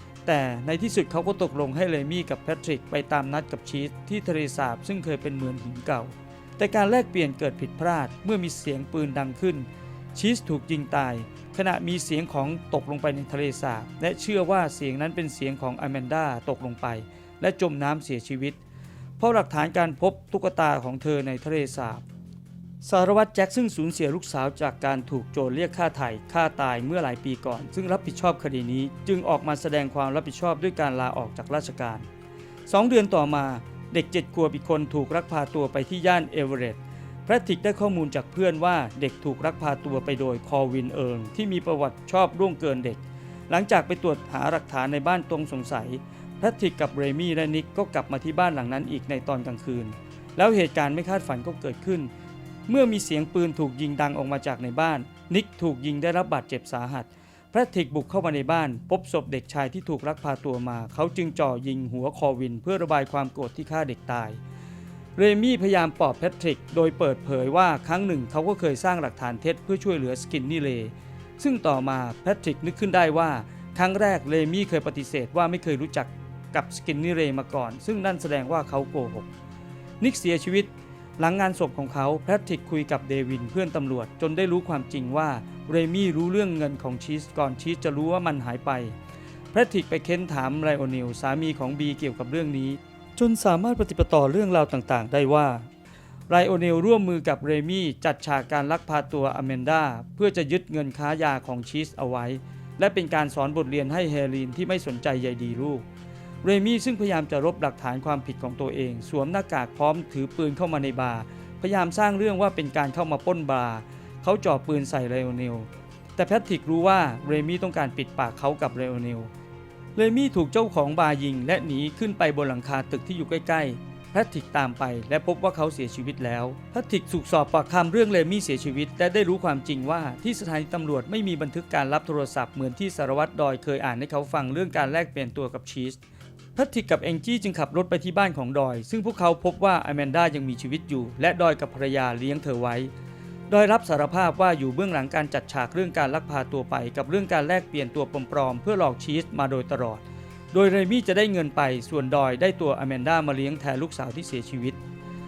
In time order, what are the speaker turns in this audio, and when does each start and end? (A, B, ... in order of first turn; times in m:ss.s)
0:00.2-0:18.6 A
0:19.2-0:22.0 A
0:22.8-0:32.0 A
0:32.7-0:52.1 A
0:52.7-1:04.4 A
1:05.2-1:19.3 A
1:20.0-1:28.9 A
1:29.5-1:35.7 A
1:36.3-1:45.8 A
1:46.4-1:59.3 A
2:00.0-2:16.0 A
2:16.6-2:22.9 A
2:23.5-2:34.8 A